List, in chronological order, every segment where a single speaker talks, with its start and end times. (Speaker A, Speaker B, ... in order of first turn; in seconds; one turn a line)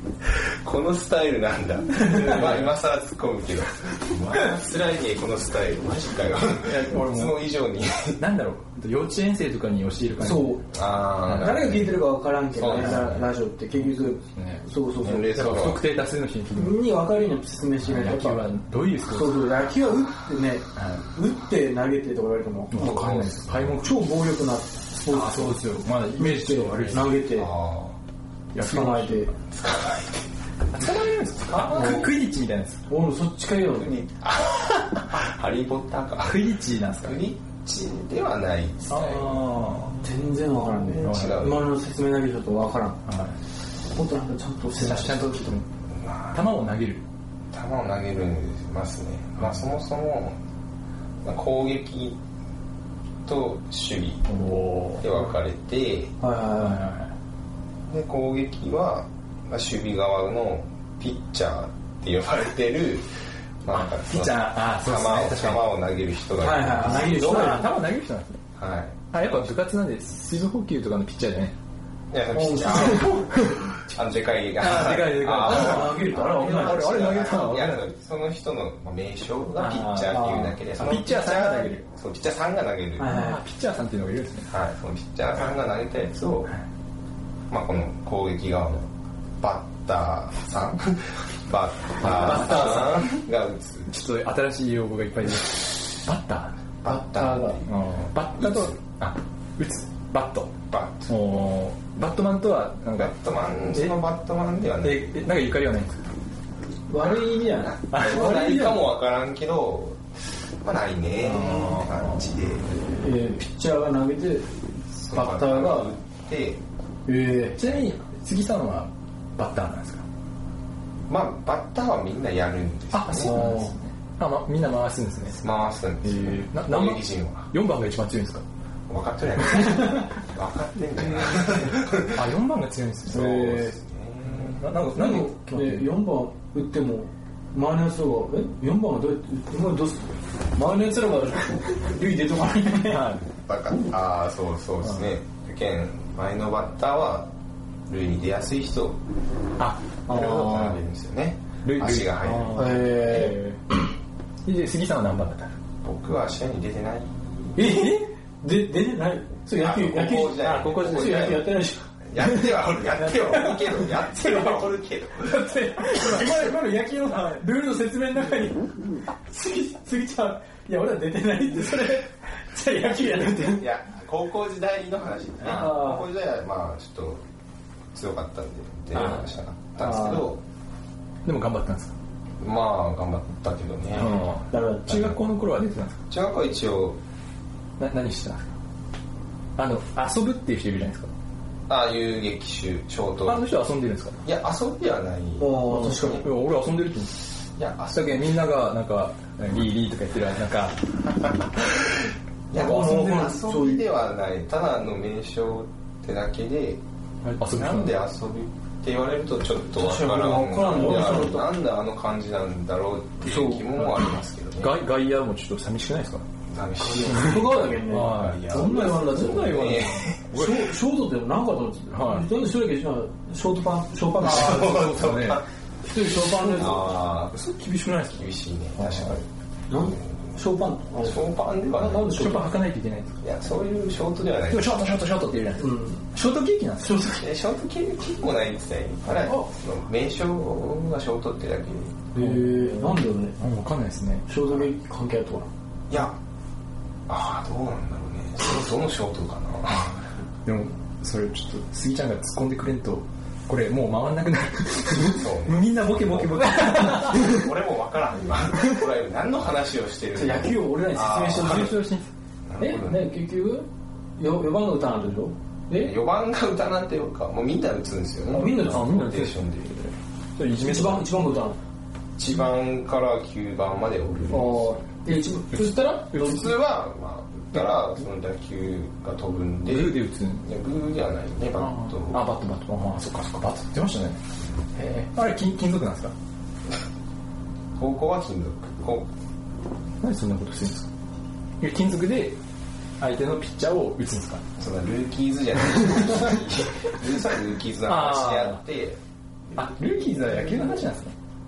Speaker A: 0.4-8.2
Speaker B: 2.0-2.5
Speaker C: 2.1-2.7
Speaker C: 6.6-7.5
Speaker C: 8.2-10.6
Speaker B: 10.2-10.6
Speaker A: 10.7-11.9
Speaker C: 11.2-11.8
Speaker B: 11.3-15.4
Speaker A: 12.5-13.3
Speaker C: 12.7-14.7
Speaker A: 15.0-15.8
Speaker C: 15.3-16.8
Speaker B: 16.5-18.4
Speaker C: 17.8-19.5
Speaker B: 19.1-25.6
Speaker C: 20.8-21.0
Speaker C: 22.7-24.1
Speaker A: 22.8-23.7
Speaker C: 25.1-27.2
Speaker B: 26.2-27.5
Speaker A: 26.9-28.0
Speaker C: 28.5-29.3
Speaker B: 28.6-29.3
Speaker A: 29.5-30.3
Speaker C: 30.7-32.8
Speaker A: 31.4-32.1
Speaker B: 31.7-32.1
Speaker B: 32.9-34.0
Speaker A: 33.8-39.4
Speaker C: 36.2-37.2
Speaker C: 38.9-40.0
Speaker B: 40.0-43.0
Speaker A: 40.7-41.6
Speaker C: 41.0-41.5
Speaker C: 43.1-43.4
Speaker B: 43.9-45.5
Speaker C: 44.8-45.7
Speaker A: 46.0-46.4
Speaker C: 46.3-47.0
Speaker A: 47.5-50.4
Speaker A: 51.2-52.2
Speaker A: 53.2-54.2
Speaker C: 54.3-55.3
Speaker A: 55.0-56.1
Speaker B: 56.2-56.9
Speaker C: 56.6-57.1
Speaker A: 57.9-63.1
Speaker A: 63.6-67.7
Speaker C: 63.7-65.7
Speaker B: 66.4-67.7
Speaker C: 66.8-68.4
Speaker A: 68.6-69.5
Speaker C: 69.1-71.5
Speaker A: 72.1-83.2
Speaker B: 72.3-73.5
Speaker C: 72.7-73.8
Speaker C: 74.6-77.9
Speaker B: 74.6-77.0
Speaker C: 79.6-81.8
Speaker B: 80.1-80.6
Speaker B: 83.0-83.4
Speaker C: 83.0-84.5
Speaker A: 84.5-86.5
Speaker A: 87.5-93.9
Speaker C: 92.0-93.2
Speaker C: 93.9-96.6
Speaker A: 96.8-97.7
Speaker B: 96.8-97.6
Speaker C: 97.7-104.0
Speaker A: 98.3-98.8
Speaker A: 100.7-101.2
Speaker A: 103.0-105.3
Speaker C: 104.8-106.1
Speaker B: 106.9-107.8
Speaker A: 107.0-110.0
Speaker C: 107.9-108.9
Speaker A: 110.6-112.8
Speaker C: 111.4-111.9
Speaker B: 112.9-116.0
Speaker A: 115.0-116.6
Speaker B: 117.1-117.6
Speaker C: 117.6-120.0
Speaker A: 121.1-123.5
Speaker C: 122.9-125.4
Speaker B: 123.1-123.7
Speaker A: 125.4-127.5
Speaker C: 126.0-128.4
Speaker A: 128.9-132.3
Speaker C: 132.0-133.7
Speaker A: 133.1-134.7
Speaker B: 133.1-133.7
Speaker C: 134.3-135.9
Speaker B: 134.9-143.1
Speaker C: 142.8-143.3
Speaker A: 143.4-147.3
Speaker A: 147.9-149.0
Speaker C: 149.6-150.8
Speaker A: 150.1-153.3
Speaker C: 151.6-153.6
Speaker B: 152.6-153.5
Speaker C: 154.4-155.5
Speaker A: 155.8-157.6
Speaker B: 157.6-161.8
Speaker C: 157.6-158.0
Speaker A: 159.5-161.6
Speaker C: 160.3-161.5
Speaker A: 162.1-165.6
Speaker B: 163.0-164.7
Speaker B: 165.2-168.7
Speaker C: 165.9-167.4
Speaker B: 169.3-173.7
Speaker A: 173.4-177.2
Speaker B: 175.4-176.1
Speaker A: 177.9-180.4
Speaker C: 178.9-179.3
Speaker B: 179.8-180.3
Speaker C: 181.2-181.9
Speaker A: 182.4-184.2
Speaker C: 183.9-186.0
Speaker B: 184.5-185.2
Speaker A: 186.1-187.0
Speaker C: 187.8-188.5
Speaker C: 189.6-191.1
Speaker A: 191.7-193.5
Speaker C: 193.2-194.2
Speaker A: 194.2-196.2
Speaker B: 195.4-196.3
Speaker C: 195.7-197.2
Speaker A: 197.6-198.4
Speaker C: 197.9-200.9
Speaker A: 201.3-206.8
Speaker B: 202.5-203.8
Speaker C: 202.6-203.2
Speaker C: 207.3-208.0
Speaker A: 207.4-214.8
Speaker B: 209.8-211.5
Speaker B: 213.2-213.7
Speaker C: 214.6-216.2
Speaker A: 216.5-220.2
Speaker B: 216.8-224.9
Speaker C: 217.0-220.8
Speaker C: 221.9-222.3
Speaker C: 224.2-225.4
Speaker A: 224.2-225.4
Speaker B: 225.8-226.9
Speaker C: 226.3-229.2
Speaker A: 226.6-227.3
Speaker A: 228.2-230.0
Speaker B: 229.7-232.6
Speaker A: 231.0-232.3
Speaker C: 232.1-233.2
Speaker A: 233.2-234.9
Speaker C: 234.5-237.1
Speaker B: 235.6-236.1
Speaker B: 236.8-237.2
Speaker A: 237.2-242.0
Speaker B: 242.1-243.4
Speaker C: 242.2-244.3
Speaker B: 244.3-245.5
Speaker A: 245.9-246.2
Speaker A: 247.1-250.0
Speaker C: 250.4-257.5
Speaker A: 255.0-261.8
Speaker B: 260.1-261.8
Speaker C: 261.4-262.1
Speaker A: 262.5-263.1
Speaker B: 262.6-265.9
Speaker A: 265.8-269.9
Speaker B: 268.3-268.9
Speaker C: 268.4-269.9
Speaker C: 270.4-271.2
Speaker B: 270.6-271.6
Speaker A: 272.2-274.8
Speaker B: 274.3-276.5
Speaker C: 275.5-276.5
Speaker A: 276.2-282.2
Speaker C: 279.7-280.4
Speaker C: 281.6-284.2
Speaker C: 284.8-286.1
Speaker A: 287.8-289.1
Speaker C: 290.0-290.9
Speaker C: 291.6-292.4
Speaker C: 293.0-294.4
Speaker A: 294.6-299.0
Speaker C: 297.9-298.6
Speaker C: 299.6-301.1
Speaker A: 300.2-300.9